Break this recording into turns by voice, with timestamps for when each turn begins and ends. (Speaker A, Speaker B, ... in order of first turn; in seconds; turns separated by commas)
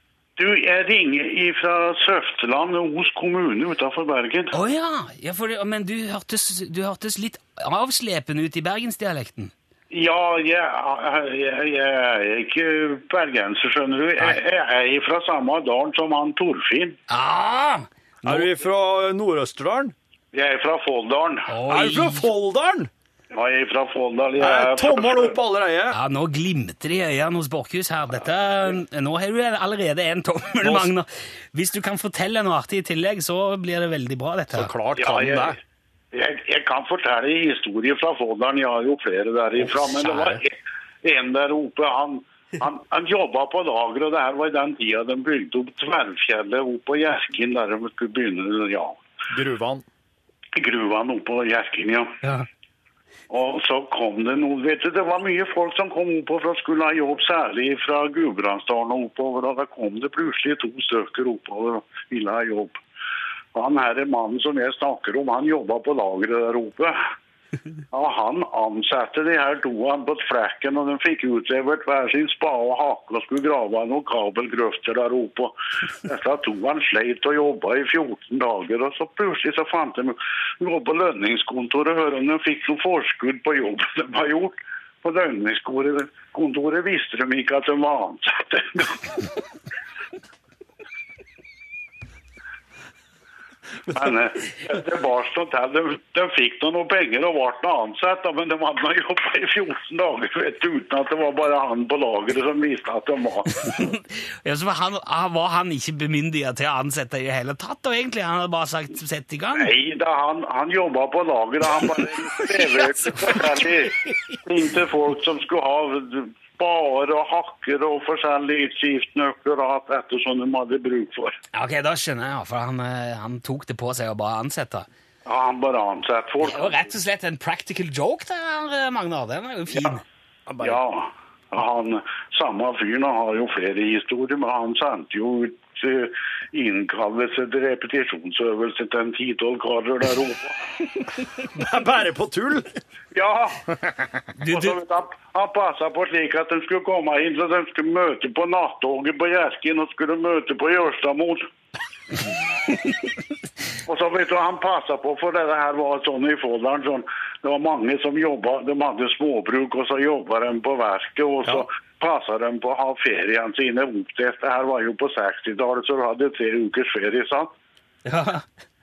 Speaker A: 0.4-4.5, Speaker B: 4.5-9.5, Speaker A: 9.9-17.0, Speaker B: 17.1-18.5, Speaker C: 18.2-19.9, Speaker A: 20.3-21.5, Speaker B: 21.5-22.3, Speaker C: 21.7-22.9, Speaker A: 23.3-25.4, Speaker C: 24.4-26.0, Speaker B: 25.9-34.7, Speaker C: 30.6-30.9, Speaker C: 34.5-35.6, Speaker A: 35.0-35.5, Speaker A: 36.1-49.0, Speaker C: 40.0-40.3, Speaker C: 49.3-49.9, Speaker A: 50.5-52.2, Speaker A: 53.3-62.8, Speaker A: 63.5-67.0, Speaker A: 67.9-89.2, Speaker A: 93.9-103.6, Speaker B: 103.7-109.7, Speaker A: 109.6-121.4, Speaker B: 112.4-113.5, Speaker B: 121.5-124.9, Speaker A: 125.3-126.9, Speaker B: 126.4-130.0, Speaker C: 130.5-130.8, Speaker A: 130.6-140.6, Speaker C: 141.4-142.8, Speaker A: 143.1-143.7, Speaker B: 144.4-144.8, Speaker A: 144.5-151.5, Speaker A: 153.9-167.5, Speaker B: 168.1-168.4